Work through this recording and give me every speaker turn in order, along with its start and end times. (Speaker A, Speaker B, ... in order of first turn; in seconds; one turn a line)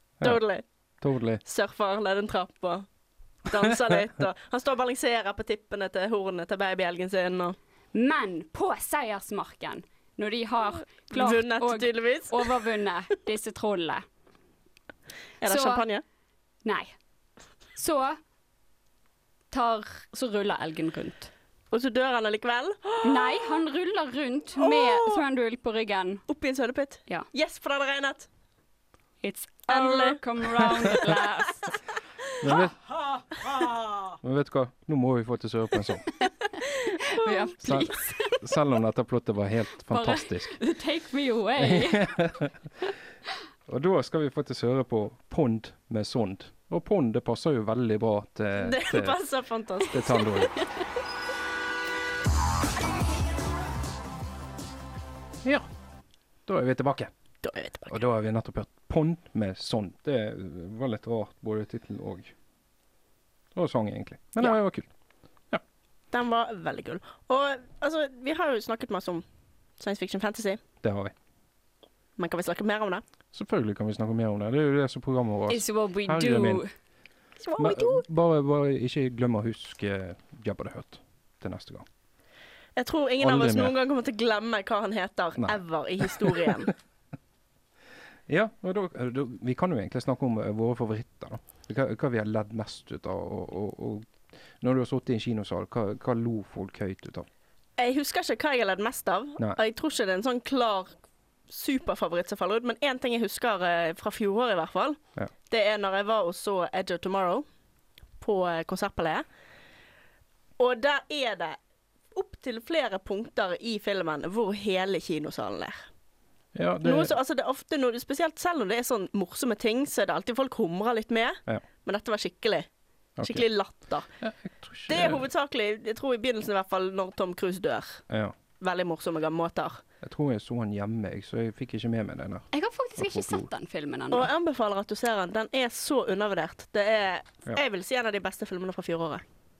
Speaker A: 0.2-0.6
Speaker B: 1.0-1.4
Speaker A: 1.4-2.8
Speaker A: 3.5-7.5
Speaker C: 7.9-14.0
Speaker A: 11.1-12.5
Speaker A: 15.4-16.0
Speaker C: 15.4-15.8
Speaker C: 16.6-16.9
Speaker C: 17.8-18.2
Speaker C: 19.5-21.3
Speaker A: 21.7-23.5
Speaker C: 23.0-26.2
Speaker A: 24.6-25.2
Speaker A: 26.3-28.3
Speaker C: 29.2-31.8
Speaker A: 29.7-30.2
Speaker B: 32.4-32.8
Speaker B: 34.2-36.1
Speaker C: 37.0-38.4
Speaker B: 37.6-40.5
Speaker C: 39.9-42.1
Speaker B: 41.6-42.6
Speaker B: 43.7-49.2
Speaker A: 48.6-50.5
Speaker B: 49.8-50.6
Speaker B: 56.5-57.1
Speaker A: 57.4-58.0
Speaker B: 57.9-62.3
Speaker B: 63.5-64.9
Speaker A: 66.1-69.2
Speaker A: 69.8-70.6
Speaker B: 70.8-71.1
Speaker A: 72.2-73.0
Speaker B: 73.3-76.6
Speaker C: 75.5-76.7
Speaker A: 77.4-78.0
Speaker B: 77.6-81.8
Speaker A: 82.8-86.7
Speaker B: 83.2-83.7
Speaker B: 85.4-86.5
Speaker B: 88.3-97.3
Speaker A: 97.8-101.0
Speaker A: 101.5-107.5
Speaker A: 108.2-109.2
Speaker A: 110.6-111.6
Speaker A: 112.1-115.8
Speaker B: 116.5-117.2
Speaker A: 116.8-122.7
Speaker B: 123.2-123.5
Speaker A: 123.2-124.1
Speaker B: 124.2-125.3
Speaker A: 124.9-128.0
Speaker B: 128.1-128.3
Speaker A: 128.6-129.8
Speaker B: 130.0-133.5
Speaker C: 132.5-134.3
Speaker A: 134.1-139.2